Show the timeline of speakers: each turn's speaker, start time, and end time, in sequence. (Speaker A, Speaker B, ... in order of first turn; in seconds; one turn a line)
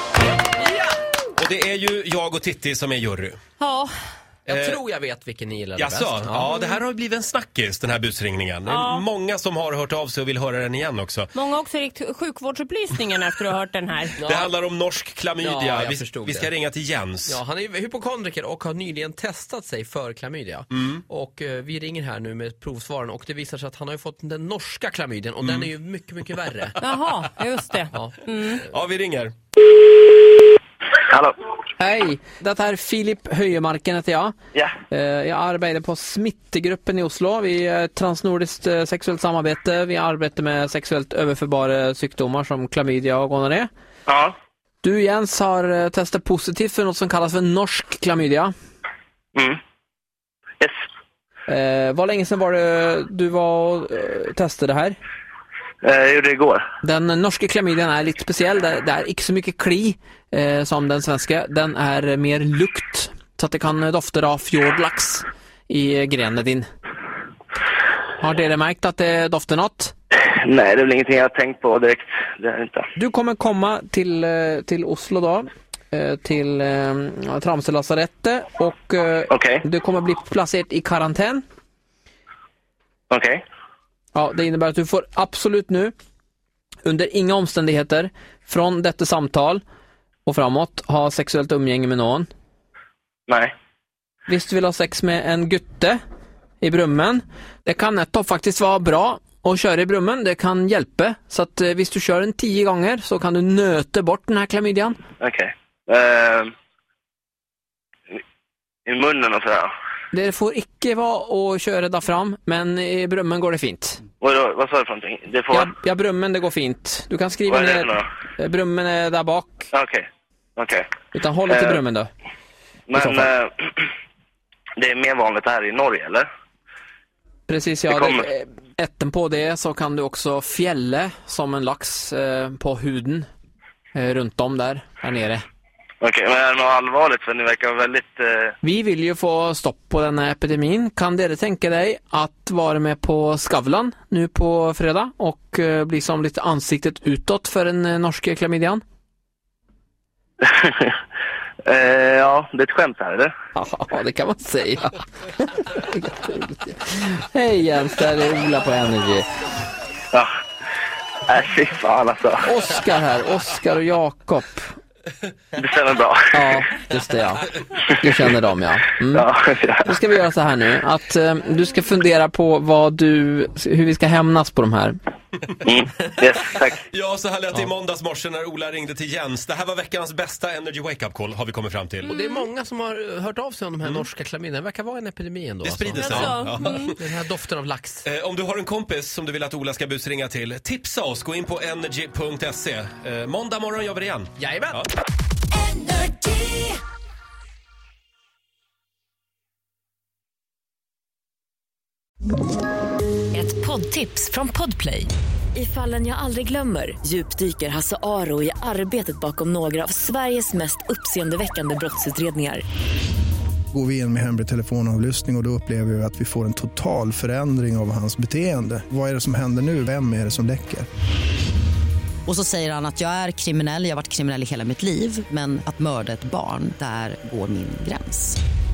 Speaker A: 1.4-3.4
Speaker B: 3.6-3.9
Speaker C: 4.5-6.5
Speaker A: 4.5-4.8
Speaker A: 5.8-11.3
Speaker B: 8.7-9.1
Speaker B: 11.3-14.3
Speaker C: 14.2-14.5
Speaker A: 14.3-17.4
Speaker C: 15.4-16.5
Speaker C: 17.3-26.8
Speaker B: 26.8-28.6
Speaker A: 28.4-29.3
Speaker D: 31.1-31.3
Speaker E: 31.8-34.3
Speaker E: 34.9-43.7
Speaker D: 44.1-44.3
Speaker E: 44.8-48.5
Speaker E: 51.5-55.0
Speaker D: 55.8-56.6
Speaker E: 56.8-66.7
Speaker E: 68.2-69.9
Speaker D: 70.1-72.8
Speaker E: 73.0-81.4
Speaker D: 79.3-79.6
Speaker D: 83.1-83.4
Speaker E: 84.1-85.9
Speaker E: 86.8-89.6
Speaker E: 90.3-92.3
Speaker E: 94.3-96.0
Speaker E: 96.6-105.0
Speaker D: 105.2-106.5
Speaker D: 108.9-109.7
Speaker E: 110.1-114.0
Speaker D: 114.2-115.7
Speaker E: 115.5-119.7
Speaker D: 117.5-118.0
Speaker D: 119.7-120.9
Speaker E: 121.1-122.1
Speaker D: 121.5-121.8
Speaker D: 122.9-123.9
Speaker E: 123.0-123.3
Speaker D: 124.8-126.3
Speaker E: 127.5-133.3
Speaker D: 127.9-128.3
Speaker E: 133.9-135.4
Speaker D: 136.0-138.6
Speaker E: 138.6-148.8
Speaker D: 150.4-151.0
Speaker D: 151.7-153.3
Speaker E: 153.6-159.2
Speaker D: 161.3-162.5
Speaker E: 162.4-164.7
Speaker D: 165.6-166.4
Speaker E: 166.3-169.3
Speaker D: 169.1-169.9
Speaker E: 169.9-175.0
Speaker D: 175.7-176.8
Speaker A: 176.9-182.1
Speaker B: 182.1-182.4
Speaker C: 182.1-188.1
Speaker A: 185.6-187.2
Speaker B: 186.0-186.9
Speaker A: 188.1-194.9
Speaker C: 194.4-194.8
Speaker F: 195.7-196.5
Speaker F: 203.3-212.6
Speaker G: 213.7-220.9
Speaker H: 222.3-228.4